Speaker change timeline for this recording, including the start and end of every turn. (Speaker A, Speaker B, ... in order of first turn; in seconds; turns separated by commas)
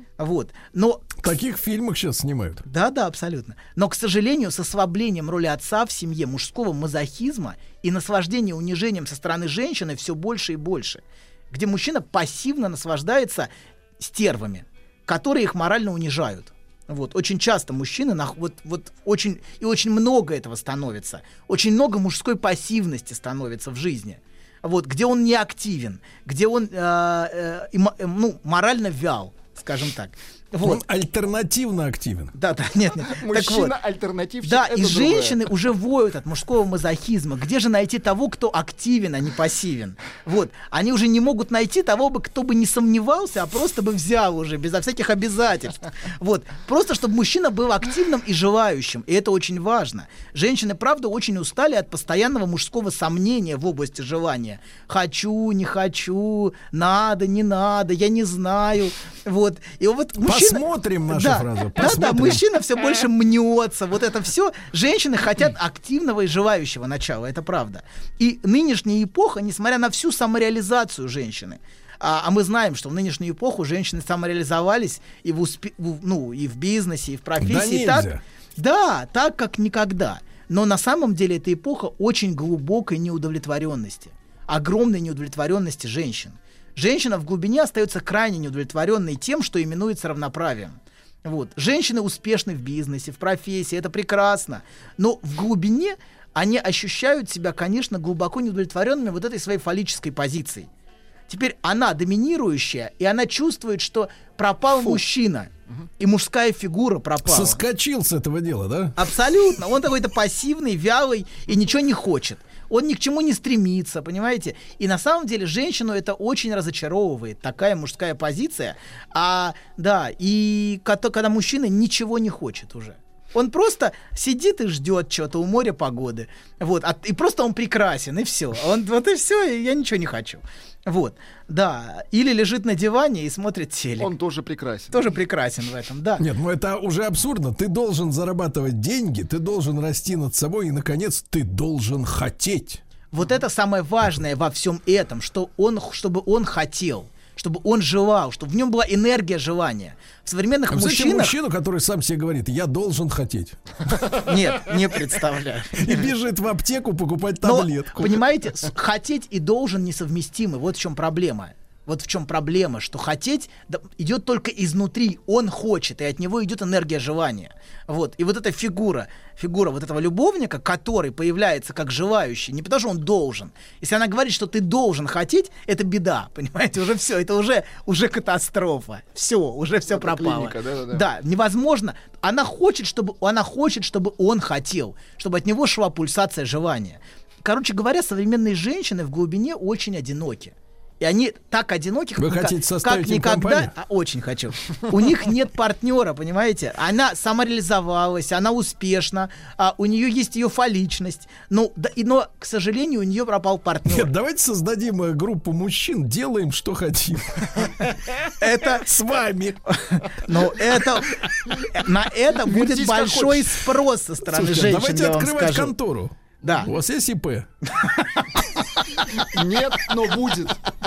Speaker A: 0.2-1.3, Speaker B: 1.2-2.6, Speaker A: 2.6-30.8, Speaker B: 30.6-32.3, Speaker A: 32.4-33.7, Speaker C: 33.0-35.4, Speaker A: 34.4-100.7, Speaker B: 60.2-62.4, Speaker B: 77.4-78.2, Speaker A: 101.3-107.6, Speaker B: 107.2-109.0, Speaker A: 109.0-134.1, Speaker C: 134.0-135.1, Speaker A: 134.9-136.2, Speaker B: 136.2-142.8, Speaker A: 143.1-151.3, Speaker B: 150.7-153.6, Speaker A: 154.2-156.1, Speaker B: 155.8-158.2, Speaker A: 157.4-204.1, Speaker C: 179.9-181.1, Speaker B: 192.2-193.7, Speaker B: 203.9-209.7, Speaker A: 208.4-208.9, Speaker A: 209.7-215.7, Speaker C: 212.3-213.6, Speaker B: 214.3-217.5, Speaker A: 216.4-216.7, Speaker A: 217.7-218.4, Speaker A: 219.0-219.3, Speaker C: 219.2-220.6